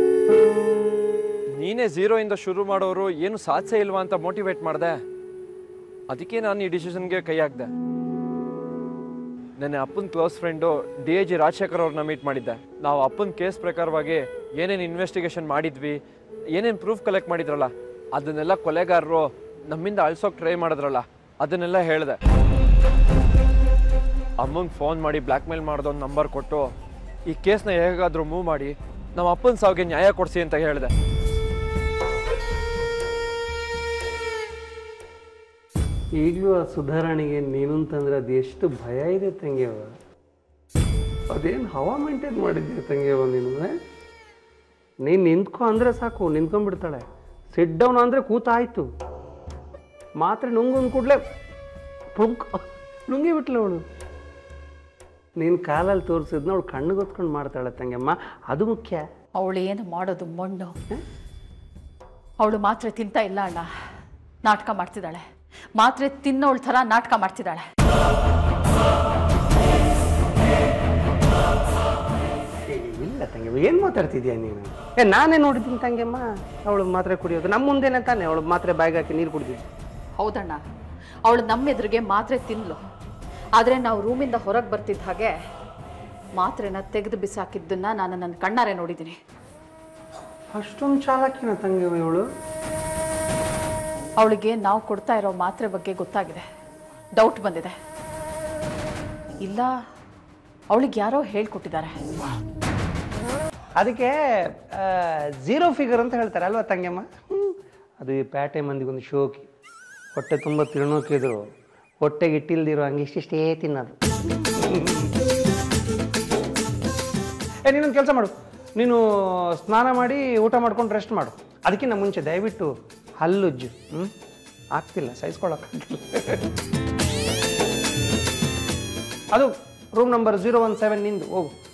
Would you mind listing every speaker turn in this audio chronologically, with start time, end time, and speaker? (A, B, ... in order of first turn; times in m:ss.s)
0:01.6-0:05.0 A
0:06.1-0:07.7 A
0:09.6-0:16.0 A
0:16.6-0:22.2 A
0:24.4-0:26.7 A
0:27.3-0:30.9 A
0:36.2-0:39.9 B
0:41.3-0:43.7 B
0:45.0-0:48.9 B
0:50.2-0:51.2 B
0:52.1-0:53.8 B
0:55.4-0:59.0 B
0:59.4-1:00.7 C
1:02.4-1:03.7 C
1:04.4-1:05.2 C
1:05.8-1:07.6 C
1:12.7-1:19.6 B
1:20.2-1:20.6 C
1:21.2-1:22.8 C
1:23.6-1:25.3 C
1:26.4-1:29.2 C
1:30.5-1:32.2 B
1:34.2-1:36.4 C
1:37.2-1:37.7 C
1:39.4-1:39.7 C
1:40.7-1:42.0 C
1:43.8-1:49.5 B
1:50.1-1:51.4 B
1:52.0-1:55.1 B
1:57.6-1:59.0 B
1:59.6-2:04.1 B
2:04.7-2:06.4 B
2:09.3-2:11.5 B